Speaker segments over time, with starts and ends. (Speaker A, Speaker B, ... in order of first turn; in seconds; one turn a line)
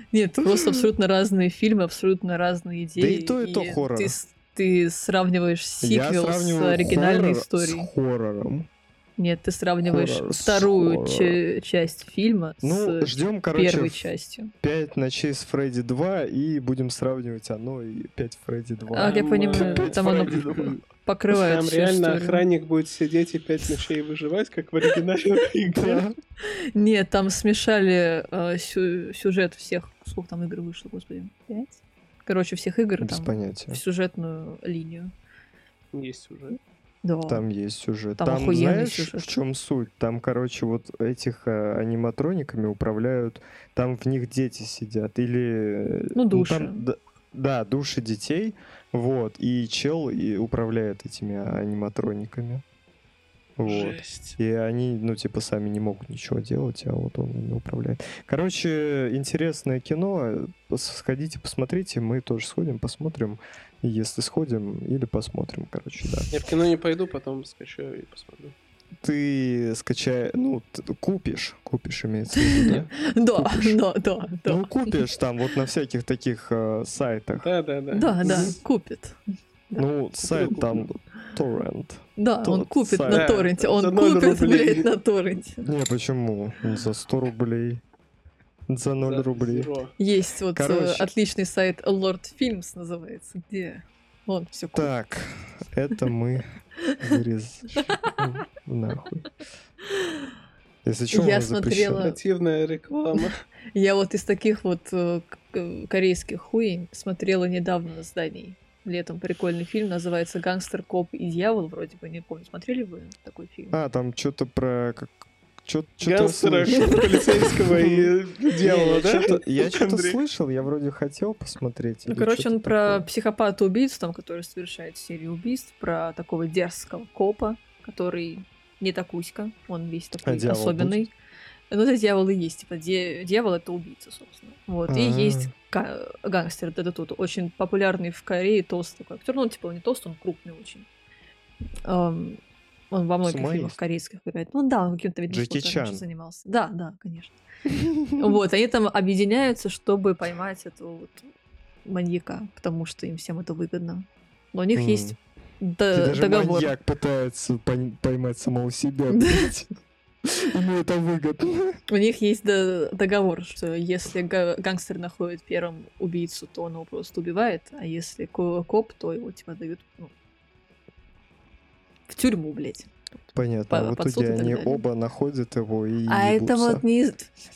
Speaker A: 0.1-7.9
Speaker B: 0.4-0.8
Speaker B: 3.0-4.1
Speaker B: 5.8-8.7
Speaker A: 9.2-14.5
Speaker B: 9.8-11.4
Speaker B: 12.6-14.1
Speaker B: 14.6-20.8
Speaker A: 18.9-22.4
Speaker C: 19.0-20.7
Speaker C: 21.3-26.1
Speaker B: 25.7-26.1
Speaker A: 26.4-35.1
Speaker B: 33.0-33.8
Speaker C: 35.9-36.6
Speaker A: 37.0-37.4
Speaker B: 37.3-52.6
Speaker A: 38.2-39.3
Speaker A: 46.1-46.9
Speaker B: 53.6-66.3
Speaker C: 53.6-54.4
Speaker C: 66.3-68.5
Speaker B: 69.0-73.8
Speaker A: 72.4-75.0
Speaker B: 74.4-77.5
Speaker C: 77.4-78.5
Speaker A: 77.9-79.2
Speaker B: 78.2-78.5
Speaker A: 79.7-80.7
Speaker B: 79.8-83.4
Speaker C: 80.3-80.9
Speaker A: 82.2-85.7
Speaker C: 83.1-84.9
Speaker B: 85.6-87.8
Speaker B: 88.7-89.7
Speaker C: 89.0-89.9
Speaker A: 90.0-94.9
Speaker B: 90.5-91.1
Speaker B: 94.7-99.3
Speaker A: 96.9-97.1
Speaker A: 97.8-98.1
Speaker B: 100.8-102.2
Speaker A: 101.1-102.2
Speaker C: 102.0-103.4
Speaker A: 103.1-113.8
Speaker B: 113.7-123.1
Speaker C: 116.0-120.2
Speaker A: 116.7-117.5
Speaker A: 122.1-131.1
Speaker B: 130.2-131.1
Speaker A: 131.7-140.9
Speaker B: 134.9-135.5
Speaker A: 141.8-142.4
Speaker A: 142.9-147.4
Speaker B: 143.2-143.8
Speaker B: 145.3-146.0
Speaker B: 147.7-148.4
Speaker A: 148.1-151.3
Speaker A: 151.8-156.7
Speaker B: 154.7-155.2
Speaker B: 155.9-159.7
Speaker A: 159.1-159.5
Speaker B: 160.2-161.8
Speaker A: 161.9-170.1
Speaker A: 172.1-172.9
Speaker B: 173.3-176.8
Speaker A: 173.7-174.8
Speaker A: 176.1-177.3